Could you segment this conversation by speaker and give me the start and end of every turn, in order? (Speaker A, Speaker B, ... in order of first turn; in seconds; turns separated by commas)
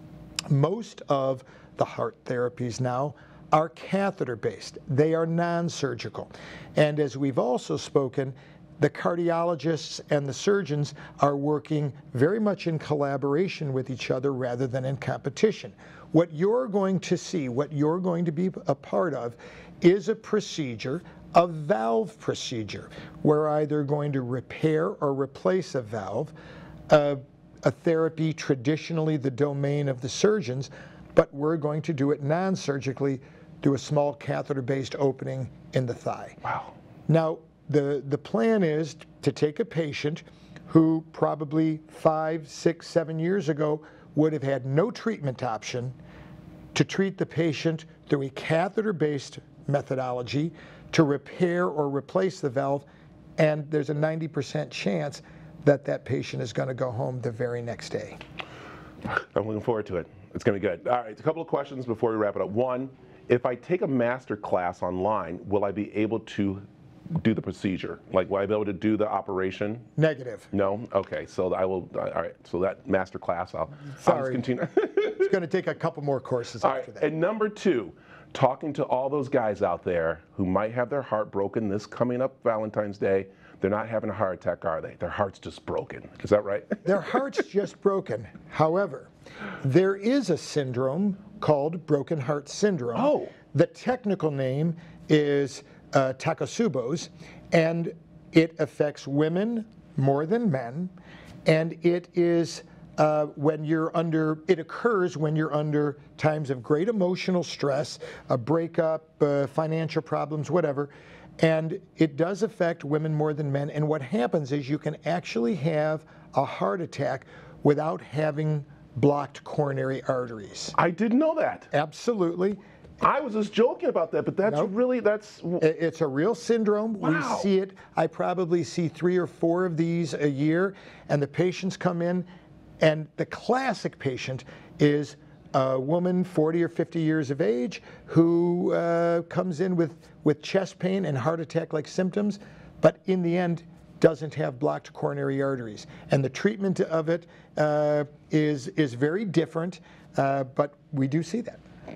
Speaker A: 0.5-26.3, Speaker A: 26.9-36.5, Speaker B: 36.5-36.7, Speaker A: 37.1-46.0, Speaker A: 46.7-52.9, Speaker A: 53.4-58.2, Speaker B: 59.1-69.8, Speaker A: 70.0-70.5, Speaker B: 70.5-75.3, Speaker A: 74.0-74.4, Speaker A: 75.2-77.1, Speaker B: 76.6-86.9, Speaker A: 86.8-89.1, Speaker A: 89.6-100.9, Speaker B: 93.0-93.3, Speaker A: 101.5-120.8, Speaker B: 120.8-121.7, Speaker A: 121.7-122.6, Speaker B: 123.0-125.6, Speaker A: 124.5-124.7, Speaker A: 125.6-132.3, Speaker B: 127.0-127.5, Speaker A: 132.8-151.6